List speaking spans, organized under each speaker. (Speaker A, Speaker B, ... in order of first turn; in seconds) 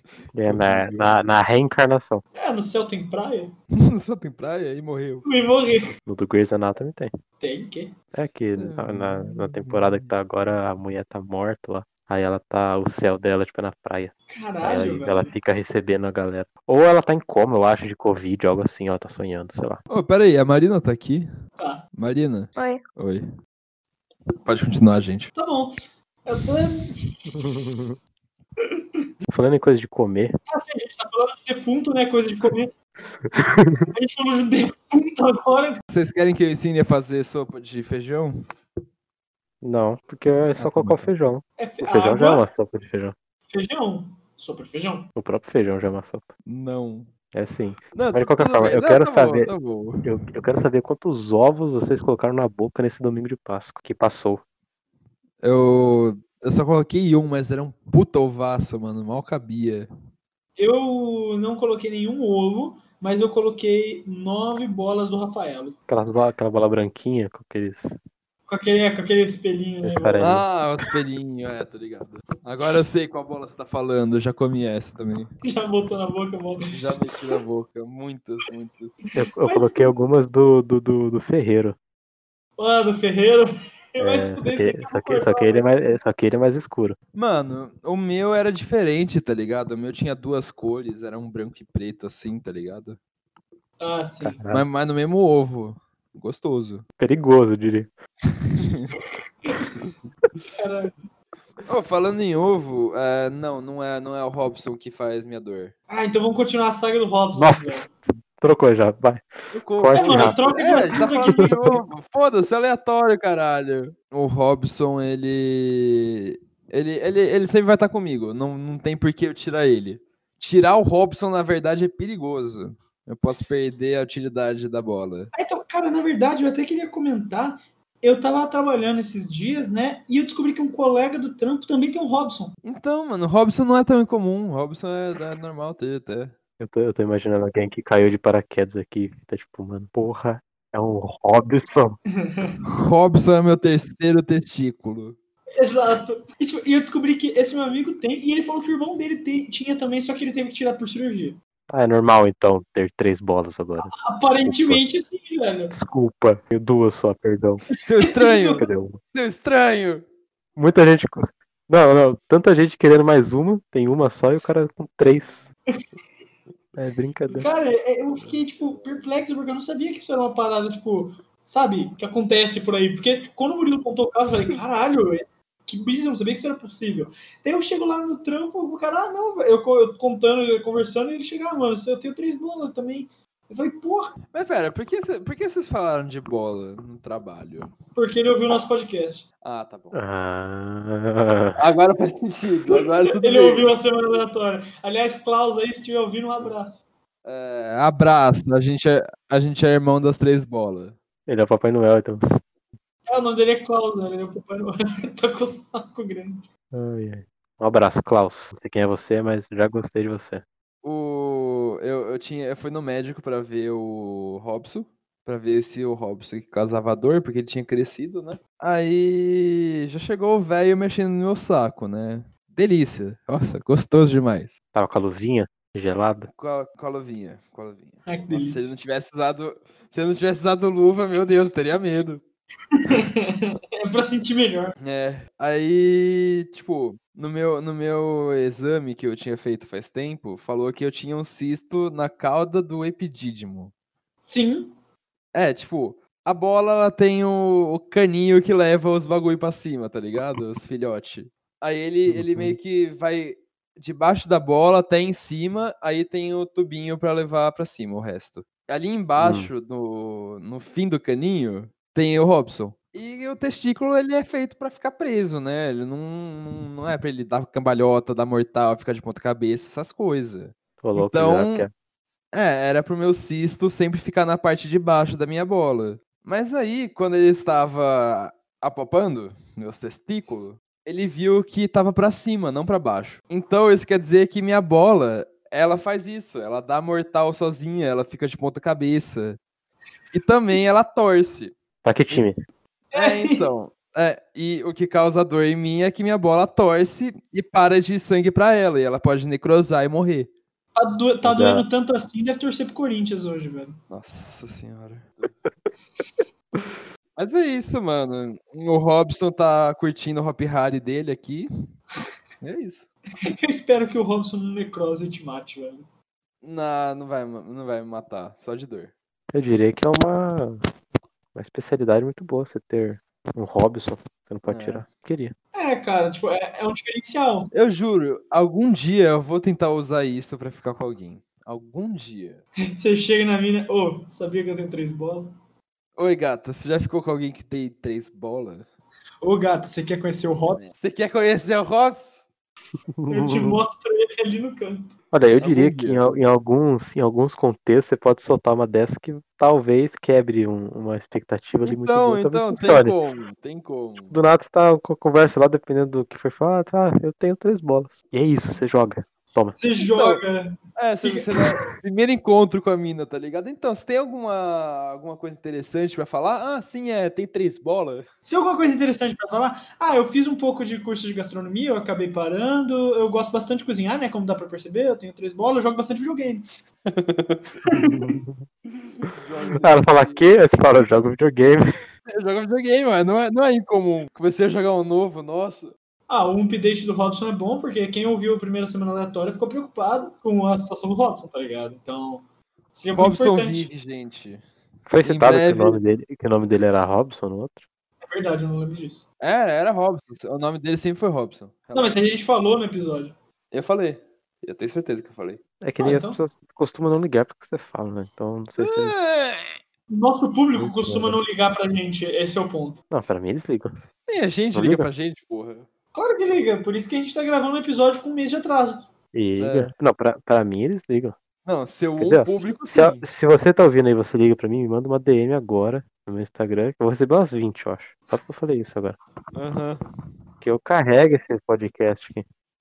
Speaker A: 0.3-2.2, 6.0-7.1, 8.1-19.8, 27.3-27.9, 29.3-30.3, 33.3-33.8, 39.6-43.1, 45.1-46.3, 47.3-49.5, 50.0-54.4, 65.9-68.0, 69.8-70.4, 79.1-81.8, 84.0-87.0, 94.2-94.6, 97.0-97.9, 107.3-110.4, 136.6-142.0, 151.7-154.8, 155.7-157.6, 158.6-159.0, 160.6-165.4, 166.7-167.5, 189.9-191.6, 201.3-202.4, 206.7-210.4, 224.7-226.3, 252.1-252.6, 259.2-259.5, 270.8-271.7, 291.8-292.4, 301.2-301.6, 319.3-320.6, 321.3-325.3, 342.9-343.6, 345.1-352.9, 354.1-359.6, 377.7-378.4, 379.6-381.7, 394.9-397.6, 405.6-408.9, 410.6-411.2, 412.9-413.7, 414.5-414.9, 419.1-421.1, 422.0-429.0, 430.4-432.2
Speaker B: 0.4-1.1, 3.7-5.2, 8.5-10.1, 19.9-21.3, 21.9-23.2, 24.4-25.3, 35.9-38.4, 40.5-41.0, 46.5-47.1, 47.9-50.1, 55.4-59.9, 70.2-75.3, 76.7-79.0, 87.1-93.0, 94.5-96.8, 98.5-98.9, 101.6-105.7, 109.5-125.3, 132.6-136.3, 142.6-145.2, 157.8-160.0, 184.3-187.7, 189.4-190.0, 191.6-193.7, 197.2-201.0, 210.8-224.5, 226.3-232.2, 234.8-243.7, 245.3-271.7, 272.3-289.4, 290.1-291.5, 292.9-300.3, 303.9-305.3, 307.1-311.5, 312.4-312.9, 316.4-318.9, 324.4-324.8, 327.5-332.4, 336.0-338.6, 340.6-342.2, 345.4-346.0, 351.6-354.1, 359.9-360.2, 360.8-368.1, 376.9-377.4, 378.8-380.3, 382.1-385.7, 392.9-394.4, 395.0-395.8, 399.2-401.9, 403.5-405.4, 408.6-409.6, 414.1-415.7, 419.4-419.7, 421.4-423.0, 429.3-429.8
Speaker C: 2.4-3.5, 5.2-5.9, 7.4-7.9, 14.3-15.3, 21.6-21.8, 25.3-26.9, 30.5-32.7, 33.9-35.8, 41.6-42.4, 43.5-45.1, 60.6-65.8, 68.5-70.3, 75.4-76.7, 79.4-80.0, 82.6-85.9, 93.8-94.4, 100.5-100.9, 105.9-107.9, 110.0-111.7, 125.3-132.5, 142.2-142.6, 145.6-151.4, 154.0-155.7, 158.0-158.6, 167.3-184.1, 187.9-189.2, 192.7-196.9, 203.1-206.4, 228.1-228.7, 232.7-234.7, 244.2-244.7, 292.9-293.4, 300.7-303.8, 313.2-315.9, 325.5-327.5, 332.7-335.3, 339.2-340.7, 343.1-344.9, 359.5-361.4, 368.3-376.4, 377.6-377.9, 386.1-393.7, 398.0-399.0, 401.7-403.1, 405.8-406.2, 409.9-412.8, 415.9-418.9